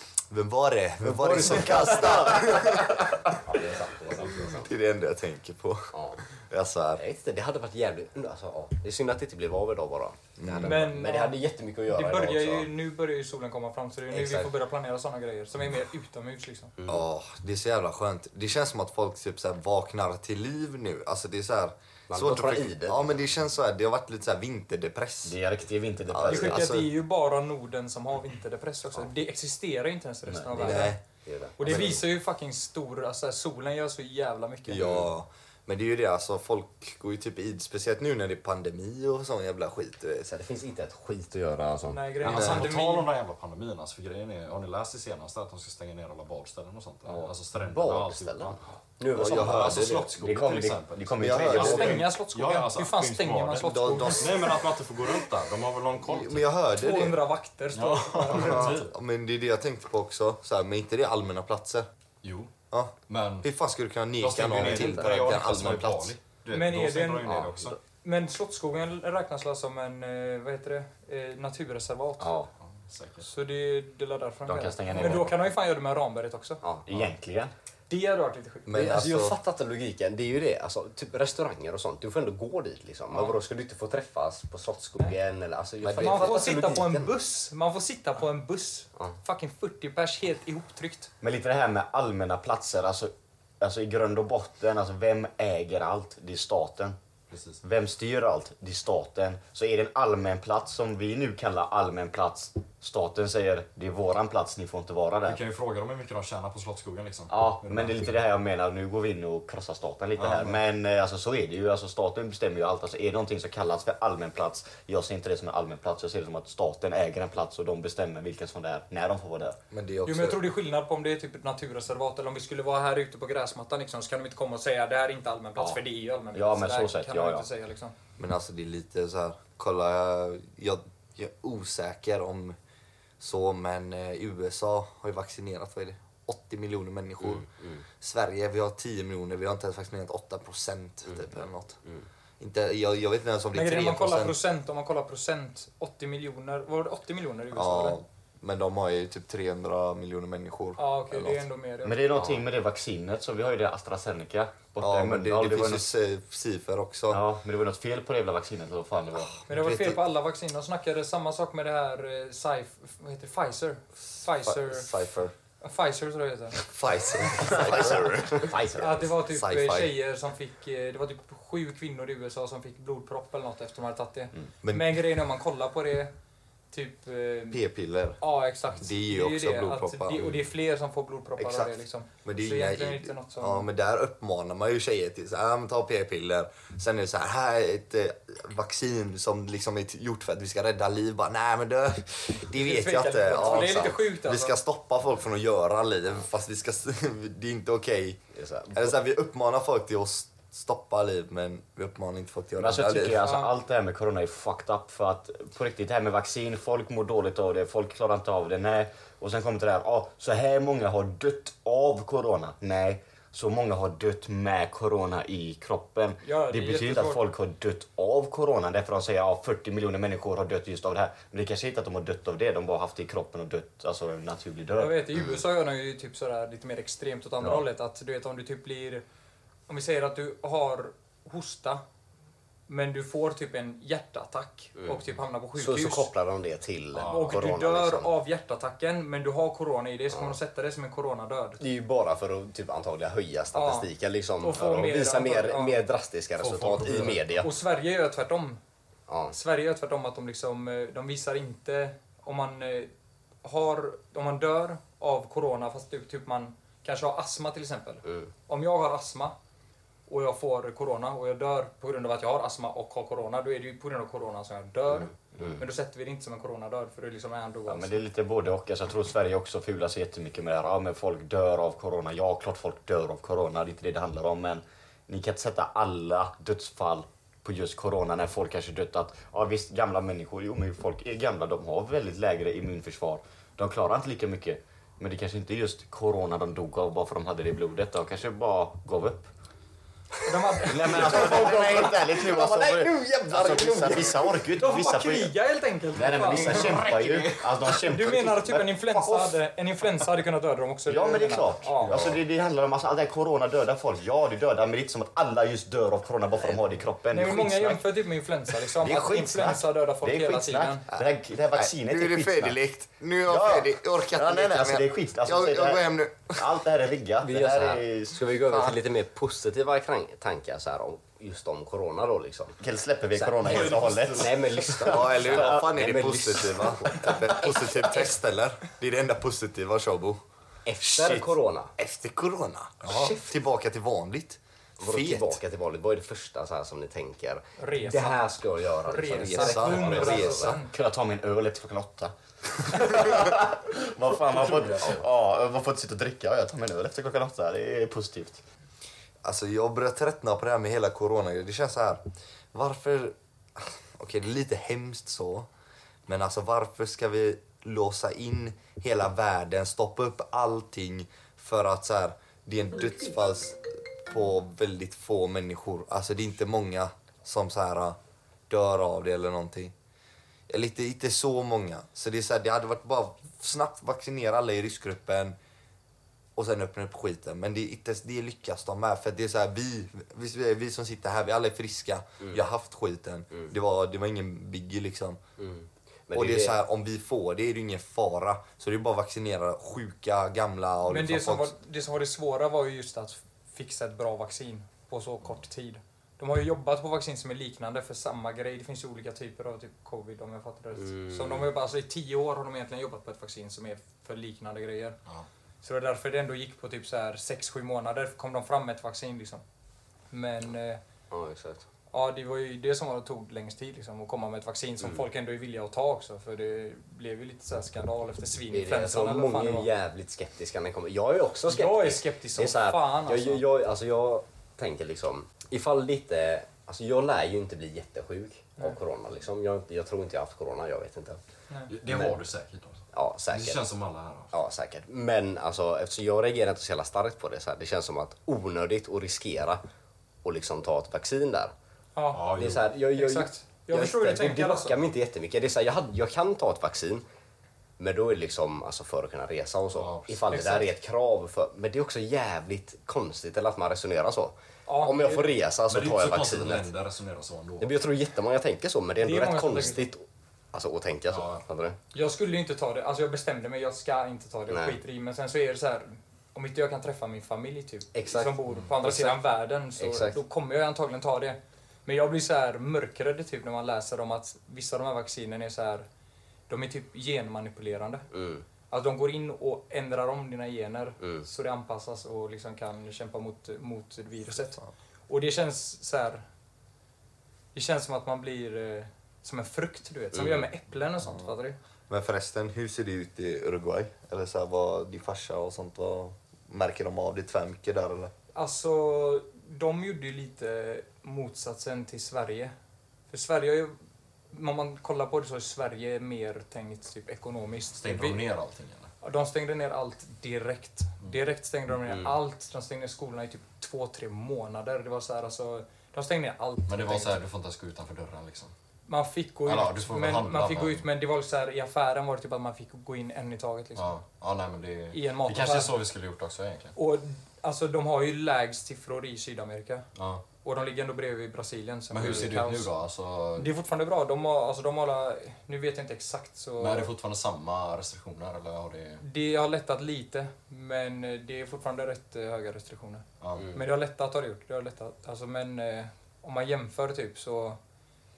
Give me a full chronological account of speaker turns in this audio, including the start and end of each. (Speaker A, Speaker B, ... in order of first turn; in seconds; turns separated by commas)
Speaker A: 0.3-3.6, Speaker B: 1.0-2.9, Speaker B: 3.5-4.7, Speaker A: 4.5-7.0, Speaker B: 5.9-6.2, Speaker B: 7.0-12.7, Speaker A: 10.4-10.9, Speaker C: 10.6-16.7, Speaker B: 14.1-14.5, Speaker B: 16.8-17.0, Speaker A: 16.9-25.4, Speaker B: 22.1-23.2, Speaker D: 25.3-26.7, Speaker A: 26.1-26.9, Speaker C: 26.3-31.0, Speaker D: 30.3-30.8, Speaker A: 30.6-31.0, Speaker B: 31.2-32.0, Speaker C: 31.6-34.9, Speaker A: 31.6-32.0, Speaker A: 34.7-40.3, Speaker D: 34.8-35.0, Speaker B: 40.3-42.4, Speaker C: 41.9-43.1, Speaker E: 42.2-56.5, Speaker A: 42.3-42.7, Speaker B: 47.1-50.1, Speaker A: 49.1-49.9, Speaker D: 50.2-52.1, Speaker A: 51.2-52.0, Speaker C: 51.6-54.4, Speaker A: 53.6-54.5, Speaker A: 56.0-57.2, Speaker C: 56.8-58.8, Speaker E: 57.7-58.9, Speaker A: 58.3-61.9, Speaker E: 62.2-62.5, Speaker A: 62.7-66.1, Speaker E: 63.1-63.5, Speaker E: 64.2-67.8, Speaker B: 64.8-65.1, Speaker C: 66.5-67.5, Speaker B: 67.3-67.7, Speaker C: 68.0-72.4, Speaker D: 72.2-72.5, Speaker E: 72.6-73.3, Speaker C: 73.2-76.6, Speaker D: 74.5-75.4, Speaker D: 76.9-77.5, Speaker C: 77.9-78.8, Speaker A: 78.7-79.4, Speaker B: 78.7-87.1, Speaker C: 83.1-83.4, Speaker D: 85.8-86.4, Speaker C: 86.0-91.1, Speaker D: 91.2-97.0, Speaker E: 97.3-97.6, Speaker D: 97.6-105.4, Speaker E: 105.2-108.0, Speaker D: 107.3-119.6, Speaker E: 110.2-110.6, Speaker A: 119.7-120.4, Speaker C: 120.1-127.9, Speaker D: 126.3-127.5, Speaker A: 128.2-132.6, Speaker A: 133.2-137.5, Speaker B: 137.4-137.8, Speaker A: 138.0-141.8, Speaker A: 142.4-144.4, Speaker C: 143.5-148.0, Speaker A: 147.5-151.4, Speaker C: 150.8-152.0, Speaker D: 151.8-155.9, Speaker A: 154.8-157.2, Speaker D: 157.1-159.4, Speaker C: 159.5-165.0, Speaker A: 159.5-160.0, Speaker A: 164.4-165.3, Speaker C: 165.6-166.6, Speaker A: 166.7-169.9, Speaker D: 167.4-168.9, Speaker C: 168.8-176.1, Speaker A: 174.6-175.1, Speaker C: 176.7-177.6, Speaker A: 177.5-178.2, Speaker C: 178.2-183.7, Speaker A: 178.8-180.4, Speaker A: 181.4-198.2, Speaker C: 192.5-194.6, Speaker B: 193.4-193.9, Speaker B: 198.3-198.9, Speaker A: 198.7-203.2, Speaker D: 202.6-225.2, Speaker C: 203.2-203.5, Speaker C: 216.2-217.2, Speaker C: 224.8-229.0, Speaker C: 229.7-231.8, Speaker C: 232.7-236.1, Speaker B: 235.6-238.1, Speaker E: 236.9-237.4, Speaker C: 237.0-241.6, Speaker B: 241.6-247.5, Speaker C: 243.5-245.8, Speaker E: 246.4-247.5, Speaker C: 247.4-248.6, Speaker B: 249.1-249.4, Speaker C: 249.3-252.9, Speaker C: 253.4-259.4, Speaker C: 260.1-268.0, Speaker D: 267.7-289.3, Speaker C: 290.2-291.9, Speaker B: 290.5-294.4, Speaker D: 290.6-295.3, Speaker C: 294.6-296.9, Speaker D: 295.9-299.4, Speaker E: 296.3-297.8, Speaker C: 297.8-301.5, Speaker D: 300.9-307.8, Speaker B: 301.7-302.2, Speaker C: 307.1-310.9, Speaker D: 308.8-312.6, Speaker A: 310.9-316.4, Speaker D: 313.3-318.7, Speaker B: 317.2-322.6, Speaker D: 322.6-325.7, Speaker B: 323.2-328.1, Speaker E: 323.5-324.1, Speaker A: 324.8-330.2, Speaker B: 330.7-331.7, Speaker A: 330.8-335.4, Speaker B: 332.9-333.3, Speaker B: 334.8-340.6, Speaker C: 337.6-338.3, Speaker C: 338.9-340.7, Speaker A: 339.1-340.6, Speaker D: 340.7-348.4, Speaker A: 349.2-352.0, Speaker A: 352.5-355.5, Speaker A: 356.1-368.0, Speaker A: 368.5-369.7, Speaker A: 370.5-375.4, Speaker A: 376.4-385.2, Speaker B: 385.4-386.6, Speaker A: 386.1-391.5, Speaker C: 390.9-405.0, Speaker B: 400.8-401.5, Speaker C: 405.6-409.4, Speaker C: 410.1-410.8, Speaker B: 411.1-411.6, Speaker C: 411.9-419.7, Speaker B: 418.5-431.2, Speaker C: 421.5-423.4, Speaker E: 431.7-434.3, Speaker B: 431.9-432.2, Speaker B: 432.9-433.6, Speaker B: 434.3-439.6, Speaker B: 440.2-441.5, Speaker C: 442.0-442.3, Speaker E: 442.1-442.6, Speaker B: 442.4-447.0, Speaker C: 442.9-444.8, Speaker B: 447.8-456.7, Speaker E: 449.7-450.7, Speaker C: 454.7-455.4, Speaker E: 455.7-457.7, Speaker B: 457.6-461.8, Speaker C: 459.0-459.9, Speaker E: 461.1-461.4, Speaker C: 461.9-475.9, Speaker B: 464.5-464.8, Speaker B: 467.9-469.2, Speaker B: 469.8-470.2, Speaker C: 476.5-478.1, Speaker B: 478.1-478.4, Speaker C: 478.7-486.2, Speaker C: 487.5-491.6, Speaker B: 490.1-490.5, Speaker A: 491.9-498.1, Speaker C: 498.4-502.5, Speaker C: 503.1-503.8, Speaker C: 504.3-508.2, Speaker E: 507.8-508.9, Speaker C: 509.0-517.2, Speaker E: 516.7-518.5, Speaker C: 518.9-524.0, Speaker E: 519.5-520.9, Speaker E: 523.8-526.8, Speaker C: 524.9-525.7, Speaker C: 526.8-529.9, Speaker E: 530.0-530.2, Speaker C: 530.4-532.7, Speaker E: 531.9-533.5, Speaker C: 533.4-536.9, Speaker E: 536.6-539.0, Speaker C: 539.0-547.6, Speaker E: 543.2-543.6